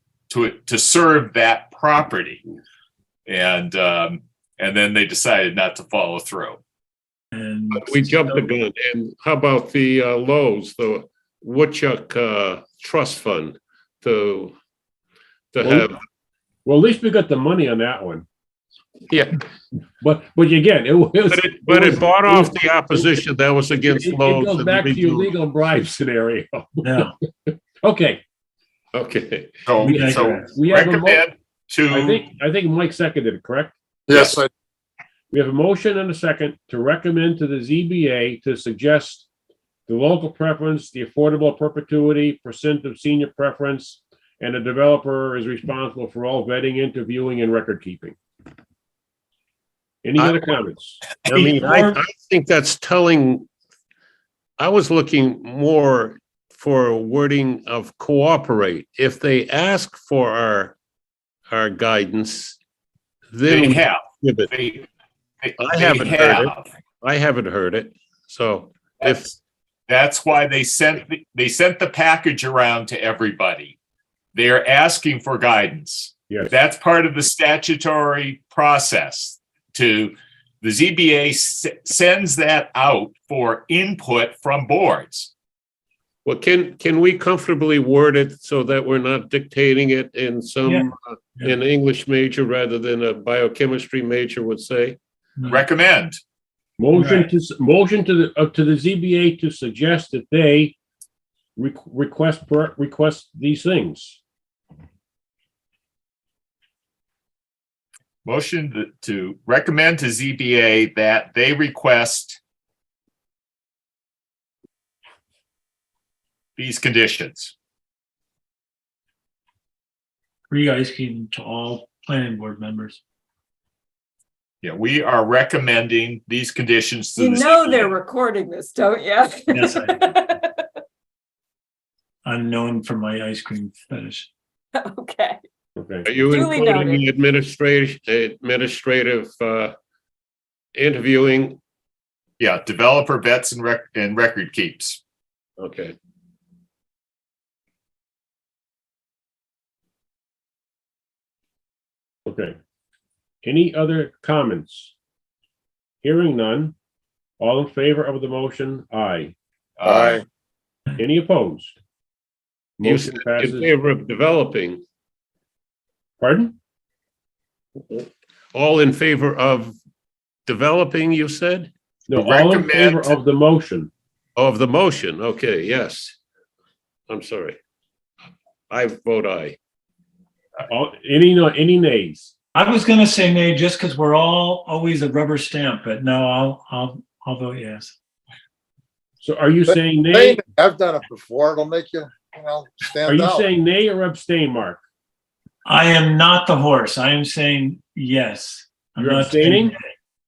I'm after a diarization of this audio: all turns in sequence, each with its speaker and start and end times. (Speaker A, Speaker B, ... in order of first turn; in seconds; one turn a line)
Speaker A: 0.3-2.4
Speaker A: 3.2-6.6
Speaker B: 7.3-8.4
Speaker C: 7.7-14.6
Speaker C: 15.5-16.0
Speaker D: 15.6-15.9
Speaker D: 16.6-18.2
Speaker C: 19.1-19.4
Speaker D: 20.0-23.1
Speaker C: 21.3-25.3
Speaker D: 23.8-28.2
Speaker B: 26.8-27.1
Speaker C: 28.9-29.6
Speaker A: 29.6-32.2
Speaker B: 29.8-30.5
Speaker D: 29.9-31.3
Speaker D: 31.9-33.8
Speaker E: 34.1-34.5
Speaker A: 34.1-34.4
Speaker D: 35.3-39.3
Speaker D: 39.9-48.2
Speaker D: 50.0-51.1
Speaker C: 51.3-53.5
Speaker B: 51.3-52.0
Speaker C: 54.6-60.8
Speaker C: 61.5-62.6
Speaker C: 63.3-64.5
Speaker A: 63.5-64.8
Speaker A: 65.4-66.7
Speaker C: 65.6-69.4
Speaker A: 69.0-69.3
Speaker A: 69.9-73.8
Speaker A: 74.3-85.3
Speaker C: 86.2-95.0
Speaker B: 90.6-91.5
Speaker B: 95.4-95.7
Speaker A: 95.5-96.2
Speaker D: 96.8-100.8
Speaker B: 96.9-97.3
Speaker D: 101.5-104.2
Speaker A: 108.2-112.4
Speaker A: 116.6-117.5
Speaker B: 120.5-123.0
Speaker A: 124.6-127.9
Speaker F: 127.2-130.7
Speaker B: 129.5-130.1
Speaker B: 132.2-134.3
Speaker F: 134.7-135.4
Speaker D: 135.8-136.1
Speaker C: 136.1-139.7
Speaker F: 136.2-137.1
Speaker C: 140.8-141.6
Speaker A: 142.4-145.0
Speaker C: 145.6-146.0
Speaker D: 152.3-152.6
Speaker D: 153.4-154.9
Speaker D: 156.0-156.8
Speaker D: 157.4-159.3
Speaker A: 159.8-160.2
Speaker E: 159.8-160.2
Speaker D: 161.0-161.8
Speaker D: 162.8-163.8
Speaker C: 162.8-164.8
Speaker D: 166.2-166.6
Speaker C: 167.8-169.8
Speaker C: 170.5-171.7
Speaker D: 172.1-173.9
Speaker A: 172.1-173.2
Speaker C: 174.4-176.2
Speaker C: 177.1-177.6
Speaker C: 178.7-179.6
Speaker D: 180.7-182.3
Speaker B: 182.6-187.9
Speaker D: 189.2-190.4
Speaker E: 189.7-193.5
Speaker D: 193.1-194.8
Speaker B: 195.7-199.9
Speaker D: 199.0-199.7